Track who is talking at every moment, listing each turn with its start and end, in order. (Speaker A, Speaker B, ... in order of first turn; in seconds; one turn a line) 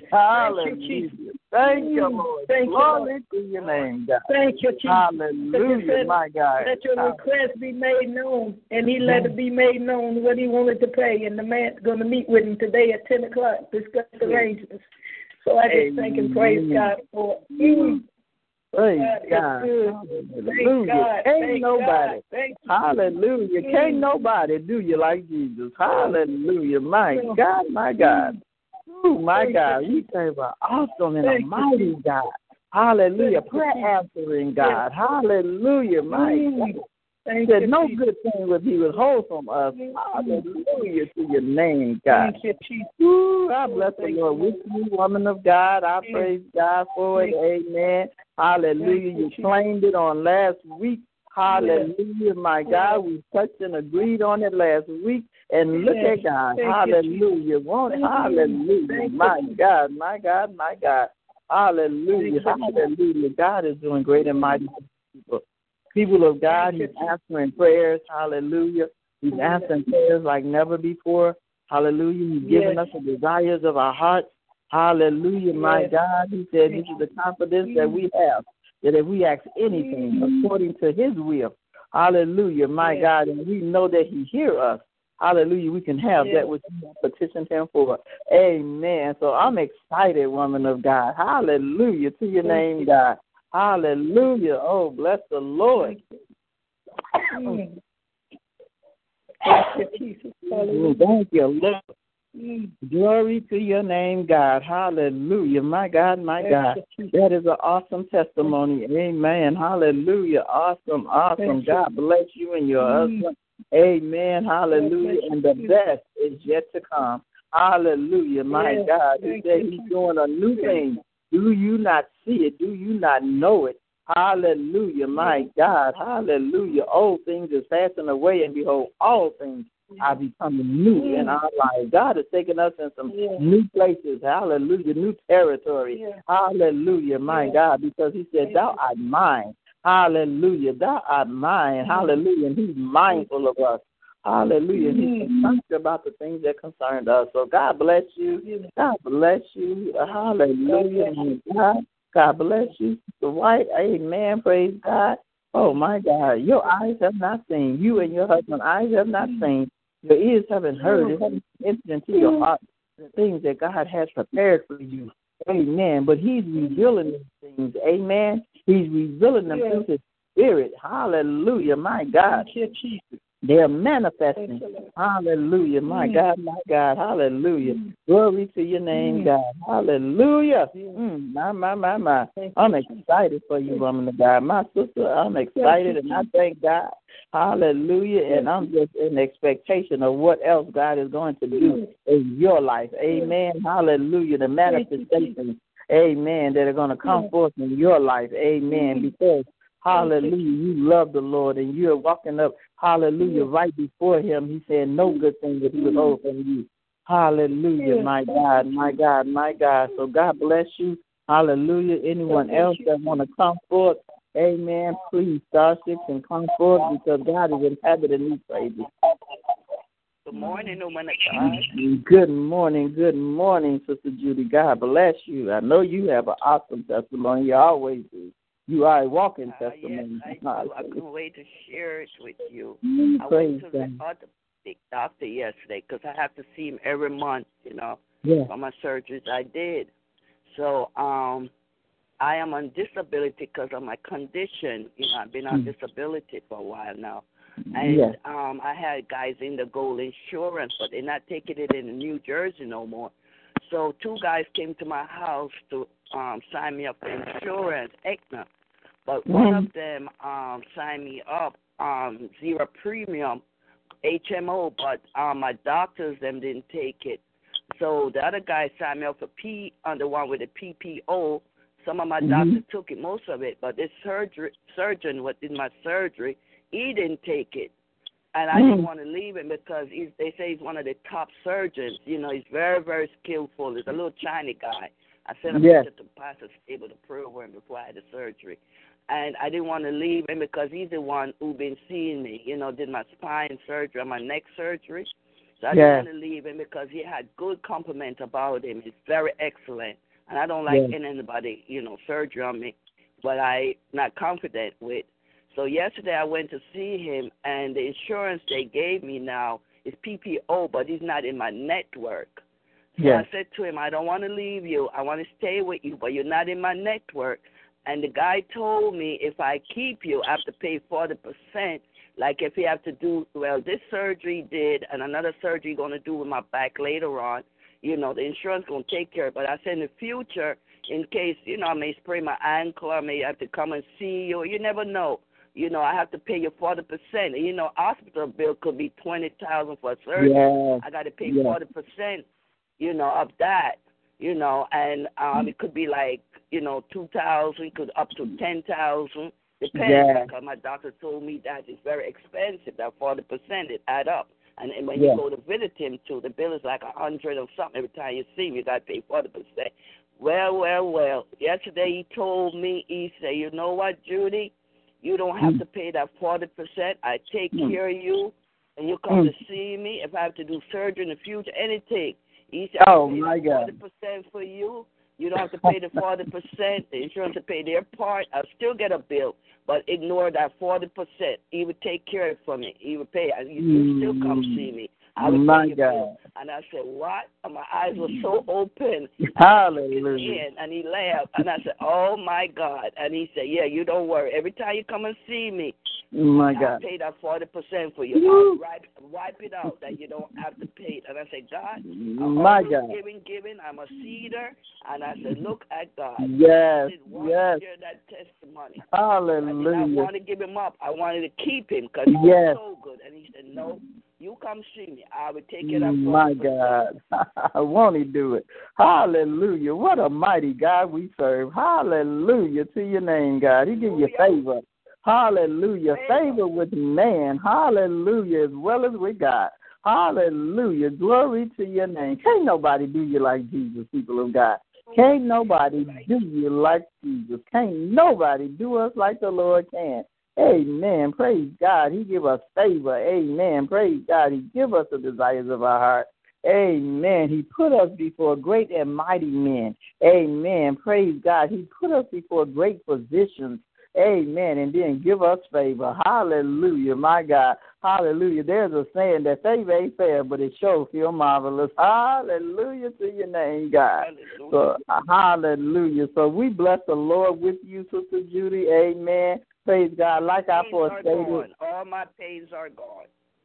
Speaker A: 0.1-4.2
Speaker B: 0.3-3.1
Speaker B: 4.2-14.8
Speaker A: 4.8-7.2
Speaker A: 9.0-9.3
Speaker A: 14.2-14.5
Speaker B: 15.4-18.0
Speaker A: 15.7-16.9
Speaker A: 17.6-18.0
Speaker A: 18.7-28.3
Speaker B: 18.9-22.8
Speaker B: 23.6-24.1
Speaker B: 25.9-26.2
Speaker B: 27.1-27.4
Speaker B: 28.0-28.4
Speaker A: 28.9-36.8
Speaker B: 29.3-30.0
Speaker B: 31.2-31.9
Speaker B: 33.2-33.9
Speaker B: 34.6-34.9
Speaker B: 36.1-38.0
Speaker A: 37.4-42.3
Speaker B: 39.7-40.9
Speaker B: 42.1-42.9
Speaker A: 43.0-96.0
Speaker B: 43.6-44.7
Speaker B: 46.0-46.3
Speaker B: 48.8-49.5
Speaker B: 51.4-51.9
Speaker B: 52.7-53.0
Speaker B: 55.7-57.4
Speaker B: 57.9-59.6
Speaker B: 62.1-62.9
Speaker B: 64.2-64.6
Speaker B: 66.5-67.1
Speaker B: 69.3-69.8
Speaker B: 72.4-72.9
Speaker B: 75.5-75.9
Speaker B: 76.7-77.0
Speaker B: 77.6-78.0
Speaker B: 79.7-80.5
Speaker B: 82.8-83.1
Speaker B: 86.2-86.6
Speaker B: 92.4-92.9
Speaker B: 95.7-96.0
Speaker B: 97.3-97.8
Speaker B: 99.4-101.1
Speaker A: 100.5-101.8
Speaker B: 102.3-102.7
Speaker A: 102.8-172.5
Speaker B: 106.4-107.1
Speaker B: 111.4-111.8
Speaker B: 112.8-113.3
Speaker B: 114.7-115.8
Speaker B: 118.5-119.9
Speaker B: 120.5-120.9
Speaker B: 125.1-125.5
Speaker B: 130.9-131.4
Speaker B: 133.1-133.4
Speaker B: 135.9-136.2
Speaker B: 137.3-137.6
Speaker B: 138.4-138.8
Speaker B: 141.8-142.2
Speaker B: 144.7-145.6
Speaker B: 148.4-148.7
Speaker B: 150.7-151.3
Speaker B: 159.2-159.5
Speaker B: 160.8-161.2
Speaker B: 162.1-162.5
Speaker B: 166.6-166.8
Speaker B: 169.5-169.8
Speaker B: 172.2-173.2
Speaker A: 173.4-218.9
Speaker B: 174.4-174.9
Speaker B: 175.8-176.2
Speaker B: 177.6-177.9
Speaker B: 178.9-179.3
Speaker B: 180.7-181.0
Speaker B: 182.3-183.0
Speaker B: 185.5-186.3
Speaker B: 188.3-188.7
Speaker B: 191.5-191.9
Speaker B: 194.6-195.3
Speaker B: 197.0-197.3
Speaker B: 198.7-199.1
Speaker B: 199.9-200.4
Speaker B: 203.2-203.5
Speaker B: 205.0-206.2
Speaker B: 207.8-208.9
Speaker B: 212.3-213.1
Speaker B: 216.6-216.9
Speaker C: 220.2-221.7
Speaker B: 220.3-220.7
Speaker A: 221.4-231.0
Speaker C: 229.4-239.9
Speaker A: 232.8-234.0
Speaker A: 238.2-238.5
Speaker C: 240.4-241.5
Speaker C: 242.2-253.1
Speaker A: 247.8-248.1
Speaker C: 253.6-258.5
Speaker C: 259.1-263.4
Speaker A: 259.2-259.7
Speaker C: 264.0-267.2
Speaker C: 267.7-277.7
Speaker A: 272.2-272.6
Speaker C: 278.3-295.1
Speaker A: 278.5-278.9
Speaker A: 285.5-285.9
Speaker C: 295.6-312.4
Speaker A: 295.7-296.1
Speaker A: 300.7-300.9
Speaker C: 313.0-342.2
Speaker A: 313.0-313.2
Speaker A: 340.1-341.6
Speaker C: 342.8-389.2
Speaker A: 349.7-350.3
Speaker A: 354.9-355.2
Speaker A: 372.8-373.7
Speaker A: 383.6-384.6
Speaker A: 385.2-386.1
Speaker A: 389.3-390.4
Speaker C: 389.7-395.7
Speaker A: 396.1-396.8
Speaker C: 396.3-408.9
Speaker A: 398.1-398.6
Speaker A: 401.8-402.9
Speaker A: 406.2-407.6
Speaker A: 408.9-410.1
Speaker C: 409.4-416.8
Speaker A: 412.1-412.6
Speaker A: 415.6-471.4
Speaker C: 423.7-424.4
Speaker C: 425.9-426.4
Speaker C: 434.9-436.1
Speaker C: 464.0-464.6
Speaker C: 470.4-473.1